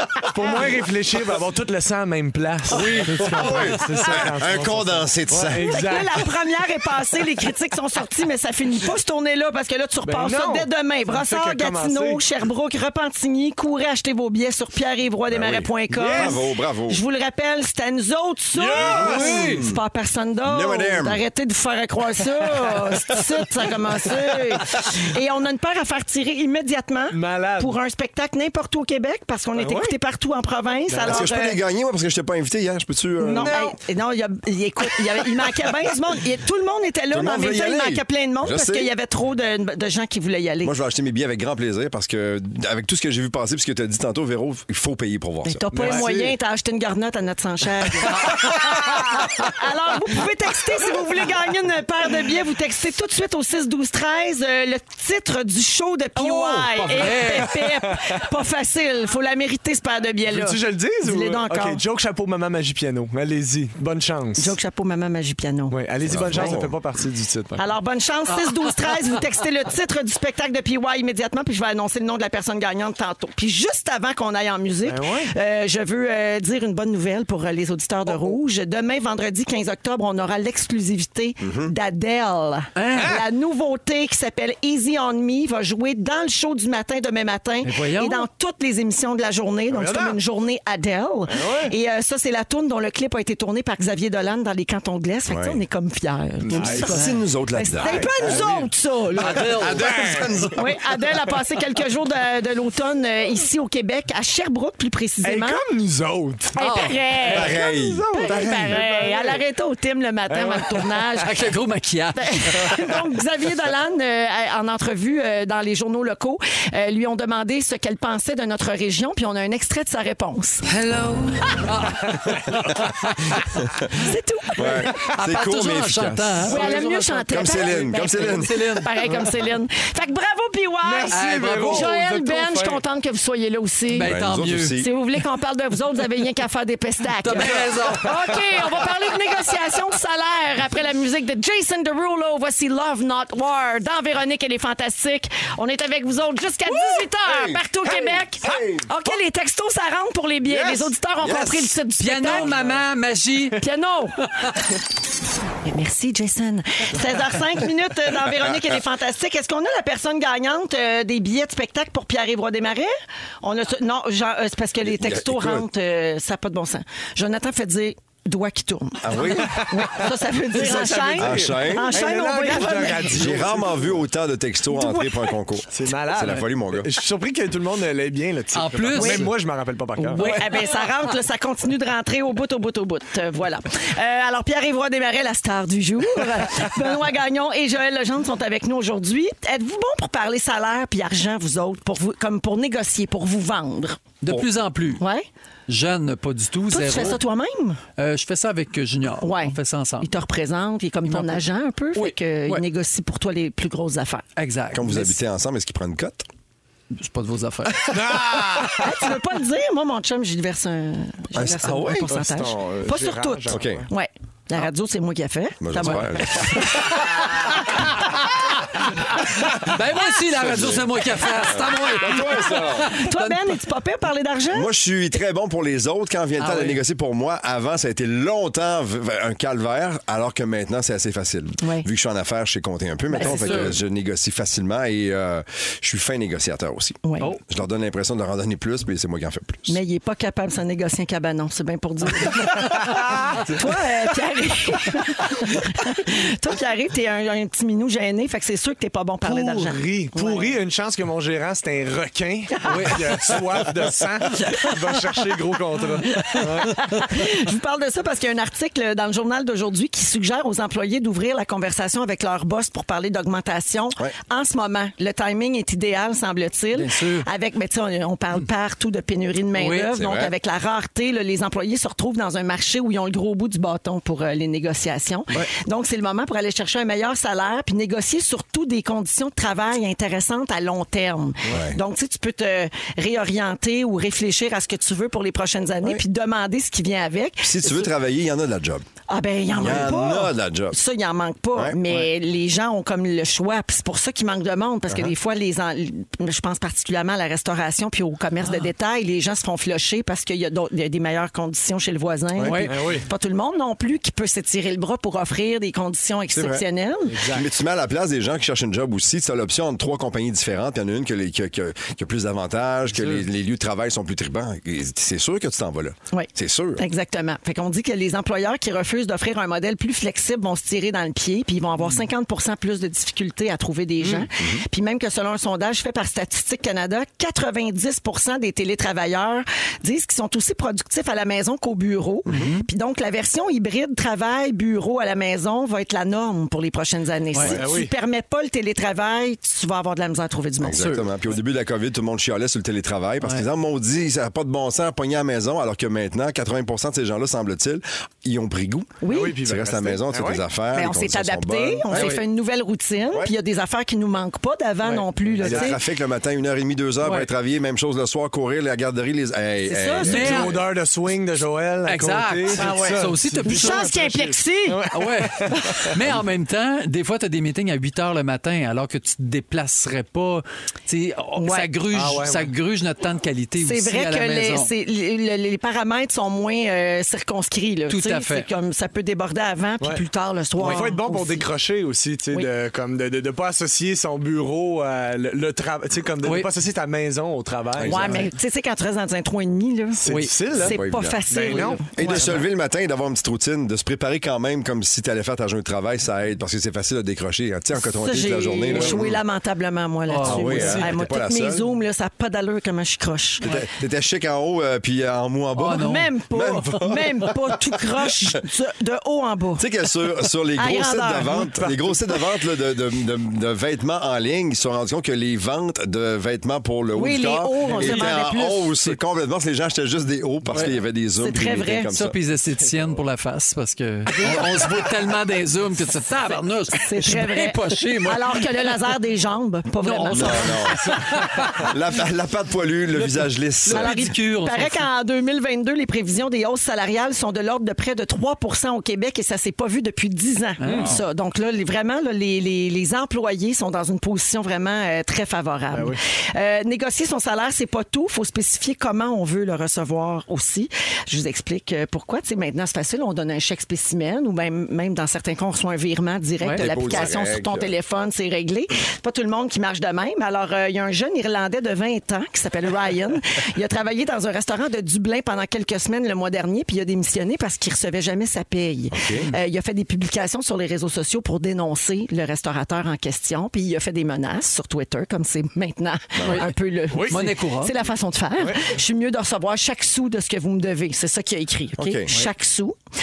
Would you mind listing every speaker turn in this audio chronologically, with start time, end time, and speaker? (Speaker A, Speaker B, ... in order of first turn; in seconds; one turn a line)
Speaker A: 0.3-6.2
Speaker B: 2.7-4.0
Speaker C: 3.1-5.9
Speaker D: 5.5-31.6
Speaker A: 10.0-12.2
Speaker C: 15.3-17.0
Speaker A: 15.9-16.4
Speaker A: 18.5-19.6
Speaker C: 18.7-19.8
Speaker C: 20.4-21.2
Speaker A: 27.1-27.8
Speaker A: 29.6-29.9
Speaker A: 30.9-31.3
Speaker C: 31.0-33.6
Speaker A: 33.2-33.8
Speaker D: 33.2-40.8
Speaker C: 37.1-38.9
Speaker C: 40.6-46.0
Speaker D: 45.4-61.8
Speaker A: 45.7-46.4
Speaker B: 45.8-46.0
Speaker B: 56.1-57.6
Speaker A: 57.0-58.0
Speaker A: 60.2-64.6
Speaker D: 64.4-65.8
Speaker A: 65.7-67.6
Speaker C: 66.0-66.8
Speaker D: 66.3-66.6
Speaker D: 67.5-99.5
Speaker B: 68.4-68.8
Speaker A: 74.8-75.3
Speaker A: 78.1-78.4
Speaker C: 81.4-81.7
Speaker B: 82.8-83.2
Speaker A: 82.9-83.2
Speaker B: 87.6-88.3
Speaker A: 89.7-90.2
Speaker A: 91.3-91.7
Speaker C: 95.3-95.6
Speaker C: 96.4-98.4
Speaker A: 96.5-97.0
Speaker A: 97.8-98.7
Speaker B: 99.2-99.9
Speaker C: 99.2-100.8
Speaker A: 99.6-100.6
Speaker D: 100.5-105.6
Speaker A: 105.2-109.4
Speaker D: 106.5-111.3
Speaker B: 106.6-107.0
Speaker C: 107.3-108.8
Speaker A: 110.3-111.1
Speaker B: 111.2-112.8
Speaker D: 112.1-120.7
Speaker B: 120.7-123.5
Speaker D: 123.9-124.9
Speaker C: 124.6-128.5
Speaker B: 125.0-128.9
Speaker D: 126.5-134.1
Speaker A: 130.8-132.8
Speaker B: 131.1-132.0
Speaker B: 133.9-134.8
Speaker C: 134.0-134.9
Speaker D: 134.7-152.5
Speaker B: 137.2-138.2
Speaker A: 137.4-138.3
Speaker C: 146.7-147.6
Speaker A: 147.9-148.6
Speaker C: 148.4-148.9
Speaker A: 150.4-150.9
Speaker C: 151.2-151.7
Speaker B: 152.0-153.6
Speaker A: 152.3-152.8
Speaker D: 153.6-154.2
Speaker B: 154.2-154.5
Speaker D: 155.6-173.3
Speaker C: 164.8-165.6
Speaker C: 169.0-169.7
Speaker A: 169.2-174.0
Speaker C: 171.2-172.0
Speaker C: 173.1-176.9
Speaker D: 174.7-175.4
Speaker A: 175.7-180.5
Speaker B: 178.5-179.3
Speaker D: 178.9-179.3
Speaker D: 179.9-194.0
Speaker B: 180.1-180.6
Speaker B: 194.2-195.0
Speaker D: 195.0-195.2
Speaker B: 195.7-197.2
Speaker D: 196.7-197.8
Speaker B: 198.0-200.1
Speaker D: 199.2-204.2
Speaker B: 201.1-202.6
Speaker B: 204.3-205.2
Speaker C: 204.7-206.2
Speaker B: 206.9-207.9
Speaker A: 207.9-208.9
Speaker C: 208.1-208.6
Speaker D: 208.6-217.0
Speaker C: 211.3-212.1
Speaker A: 212.1-213.9
Speaker C: 213.5-213.8
Speaker C: 215.6-216.9
Speaker B: 219.4-223.5
Speaker C: 220.3-220.9
Speaker C: 221.4-222.9
Speaker D: 222.8-224.7
Speaker C: 224.5-239.8
Speaker B: 226.4-226.8
Speaker D: 231.6-231.9
Speaker D: 233.1-233.7
Speaker B: 233.2-233.7
Speaker D: 237.0-237.3
Speaker D: 239.7-242.7
Speaker D: 243.5-250.5
Speaker A: 249.2-256.8
Speaker D: 252.6-253.0
Speaker B: 252.7-253.0
Speaker D: 256.2-287.9
Speaker B: 266.7-267.2
Speaker B: 269.5-269.9
Speaker C: 269.9-270.3
Speaker C: 281.5-281.8
Speaker C: 287.4-288.8
Speaker D: 289.1-307.2
Speaker C: 289.5-290.8
Speaker C: 294.9-295.1
Speaker B: 302.4-302.7
Speaker A: 302.7-303.1
Speaker C: 306.3-306.6
Speaker A: 307.1-307.4
Speaker C: 307.2-316.8
Speaker D: 316.1-340.9
Speaker A: 324.0-324.3
Speaker C: 324.4-324.6
Speaker B: 332.3-332.7
Speaker A: 337.5-337.9
Speaker C: 340.6-352.2
Speaker B: 340.8-341.1
Speaker D: 349.0-349.4
Speaker A: 349.1-350.4
Speaker D: 350.7-355.8
Speaker B: 351.9-352.2
Speaker A: 354.8-355.7
Speaker C: 355.4-360.7
Speaker B: 357.0-357.3
Speaker D: 359.7-360.4
Speaker B: 360.0-360.5
Speaker A: 360.1-365.9
Speaker B: 361.9-363.9
Speaker D: 362.6-364.8
Speaker B: 364.9-374.7
Speaker D: 371.4-371.7
Speaker A: 371.9-372.5
Speaker D: 373.6-381.4
Speaker B: 377.9-378.5
Speaker A: 380.6-388.2
Speaker B: 380.6-380.8
Speaker B: 386.2-386.5
Speaker C: 387.8-388.1
Speaker D: 387.8-392.3
Speaker A: 390.0-390.8
Speaker B: 390.1-390.3
Speaker C: 390.7-391.2
Speaker A: 391.3-392.4
Speaker C: 391.9-399.2
Speaker D: 398.0-403.4
Speaker B: 400.1-400.9
Speaker C: 400.2-401.6
Speaker C: 403.4-408.4
Speaker B: 405.6-406.1
Speaker D: 405.6-409.6
Speaker C: 409.6-422.2
Speaker D: 410.6-411.4
Speaker A: 411.4-412.0
Speaker D: 416.9-418.7
Speaker A: 417.7-417.9
Speaker B: 420.5-420.8
Speaker D: 421.2-421.9
Speaker B: 421.9-428.5
Speaker D: 426.8-430.7
Speaker B: 429.8-431.7
Speaker C: 430.1-431.1
Speaker C: 431.6-434.1
Speaker B: 433.6-434.9
Speaker D: 433.7-482.7
Speaker B: 440.6-440.9
Speaker A: 440.6-440.9
Speaker A: 445.7-446.0
Speaker C: 456.6-457.7
Speaker C: 468.9-469.3
Speaker C: 476.1-476.4
Speaker A: 476.9-477.2
Speaker B: 477.1-477.7
Speaker A: 478.4-478.7
Speaker C: 481.8-482.1